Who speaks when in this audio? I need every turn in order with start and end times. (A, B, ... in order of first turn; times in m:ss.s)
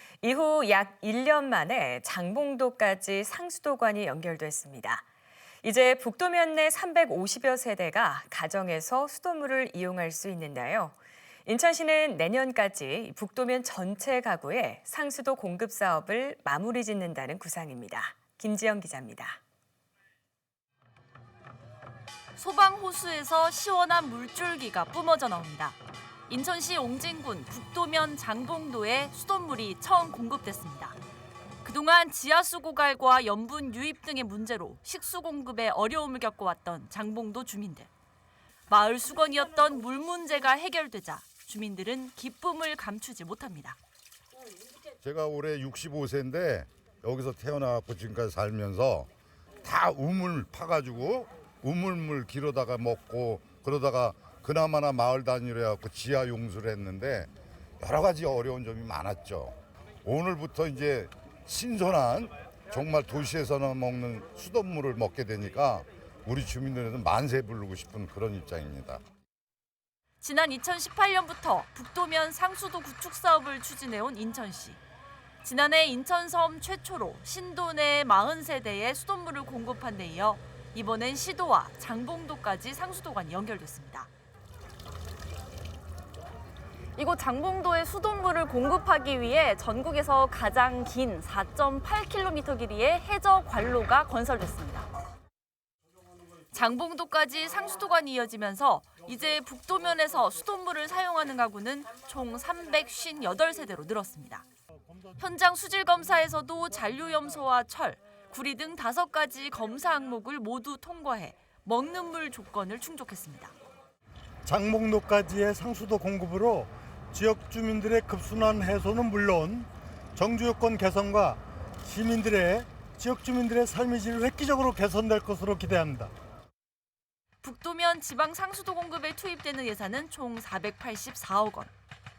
0:00.2-0:05.0 A
0:05.6-0:19.4 A
0:22.4-0:25.8 B
0:26.3-0:31.0 B
0:31.6-0:37.9 B
0:38.7-0:43.8 B
0:45.0-0:49.1 C
0:49.6-0:57.3 C
0:57.8-1:09.0 C
1:10.2-1:14.8 B
1:15.4-1:24.1 B
1:27.0-1:34.9 B
1:36.5-1:44.4 B
1:45.2-1:53.5 B
1:54.4-2:06.1 D
2:07.4-2:11.7 B